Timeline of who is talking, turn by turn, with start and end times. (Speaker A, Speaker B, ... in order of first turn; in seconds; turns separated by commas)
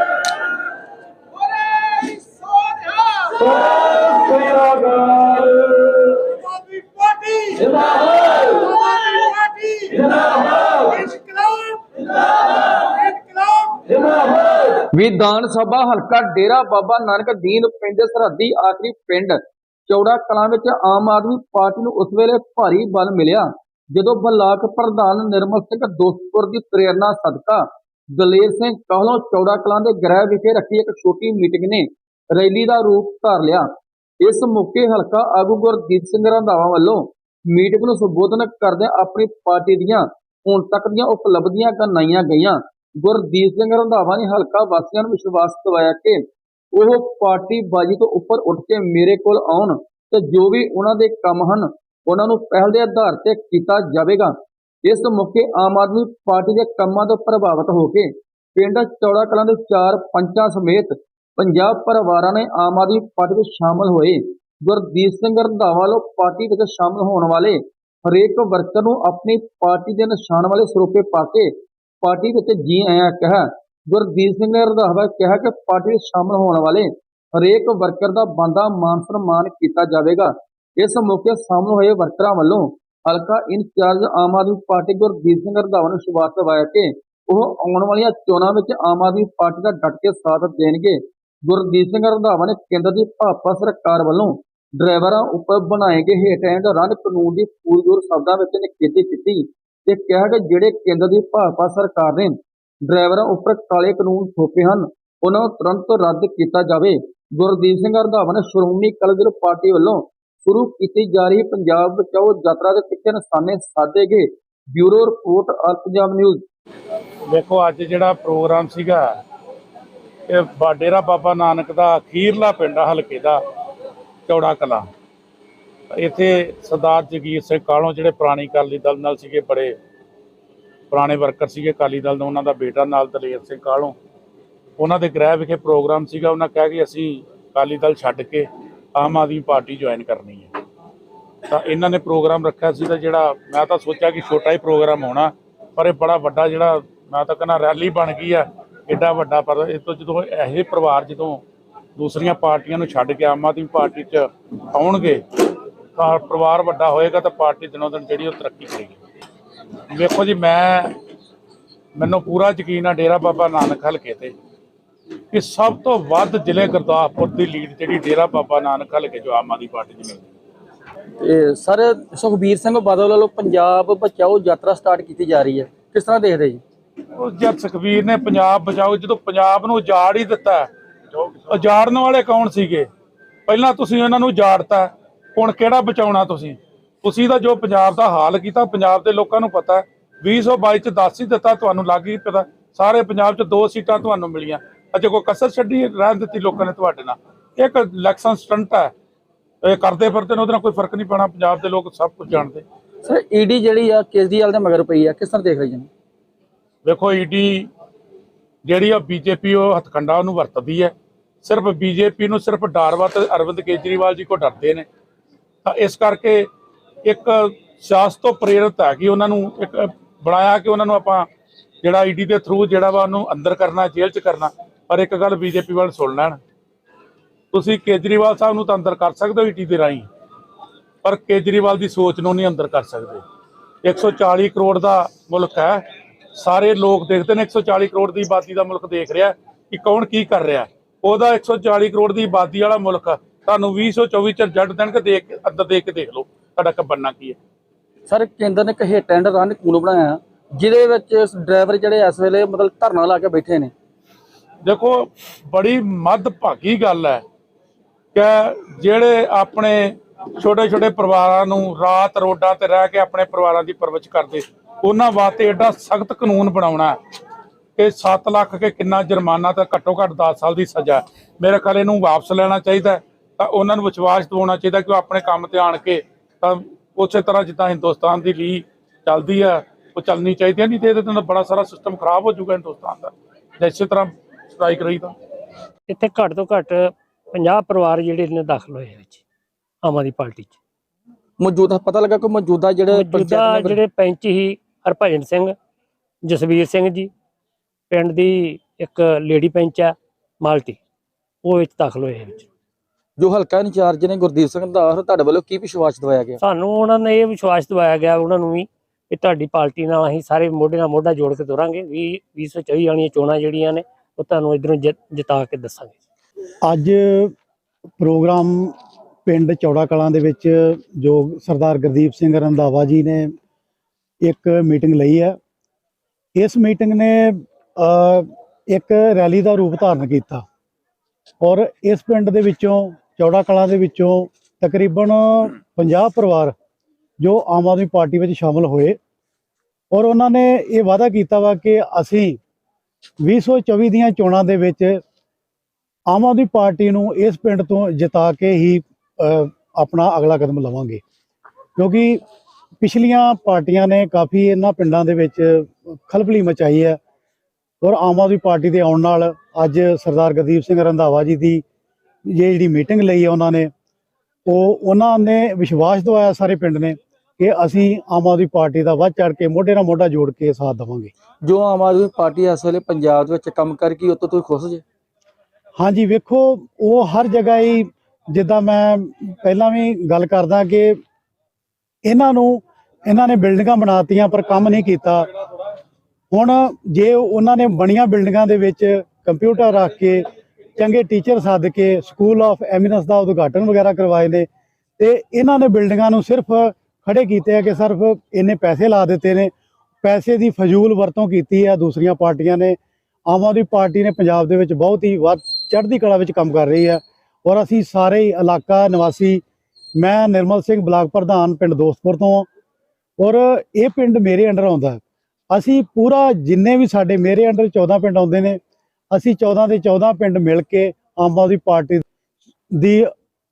Speaker A: 1.6-3.4, Speaker B: 3.6-6.3, Speaker B: 7.0-7.4, Speaker A: 7.5-8.8, Speaker A: 9.7-10.9, Speaker A: 12.7-13.0, Speaker A: 13.8-27.6, Speaker A: 28.2-33.7, Speaker A: 34.2-46.2, Speaker A: 46.7-71.5, Speaker A: 72.0-102.3, Speaker A: 102.9-116.4, Speaker B: 117.3-119.0, Speaker B: 120.3-123.4, Speaker B: 124.3-124.9, Speaker B: 125.9-129.7, Speaker B: 130.9-134.0, Speaker B: 134.8-140.5, Speaker B: 141.5-151.4, Speaker B: 152.0-155.2, Speaker B: 156.0-159.0, Speaker B: 159.9-161.0, Speaker B: 162.0-164.3, Speaker B: 165.3-170.2, Speaker A: 171.2-176.6, Speaker B: 177.2-180.7, Speaker B: 181.5-182.9, Speaker B: 183.5-198.9, Speaker B: 199.6-202.7, Speaker A: 203.0-205.9, Speaker B: 206.8-207.7, Speaker B: 208.7-214.9, Speaker B: 215.6-216.5, Speaker B: 217.1-221.3, Speaker B: 221.8-226.4, Speaker B: 227.5-230.1, Speaker B: 231.0-233.2, Speaker B: 233.8-235.8, Speaker B: 236.4-247.4, Speaker A: 248.1-253.7, Speaker B: 254.6-257.2, Speaker B: 258.1-267.0, Speaker B: 267.8-285.1, Speaker C: 285.9-289.2, Speaker C: 289.8-290.6, Speaker A: 291.4-293.8, Speaker C: 292.9-295.6, Speaker C: 296.2-297.1, Speaker C: 297.9-300.8, Speaker C: 301.4-302.5, Speaker A: 303.2-306.4, Speaker C: 306.4-316.0, Speaker D: 316.6-317.3, Speaker D: 318.0-318.7, Speaker D: 319.2-323.3, Speaker D: 324.2-325.4, Speaker D: 326.4-330.4, Speaker D: 331.4-336.5, Speaker D: 337.2-339.0, Speaker D: 339.9-342.4, Speaker D: 343.2-345.0, Speaker D: 346.1-351.0, Speaker D: 351.8-352.2, Speaker D: 352.8-357.0, Speaker D: 357.8-361.6, Speaker D: 362.3-363.7, Speaker D: 364.4-371.1, Speaker A: 371.4-374.8, Speaker D: 375.8-381.0, Speaker D: 382.1-385.2, Speaker D: 386.3-390.2, Speaker D: 390.8-394.5, Speaker D: 395.0-399.5, Speaker D: 400.0-409.4, Speaker D: 410.0-412.5, Speaker D: 413.2-418.6, Speaker D: 419.1-422.0, Speaker D: 422.8-423.1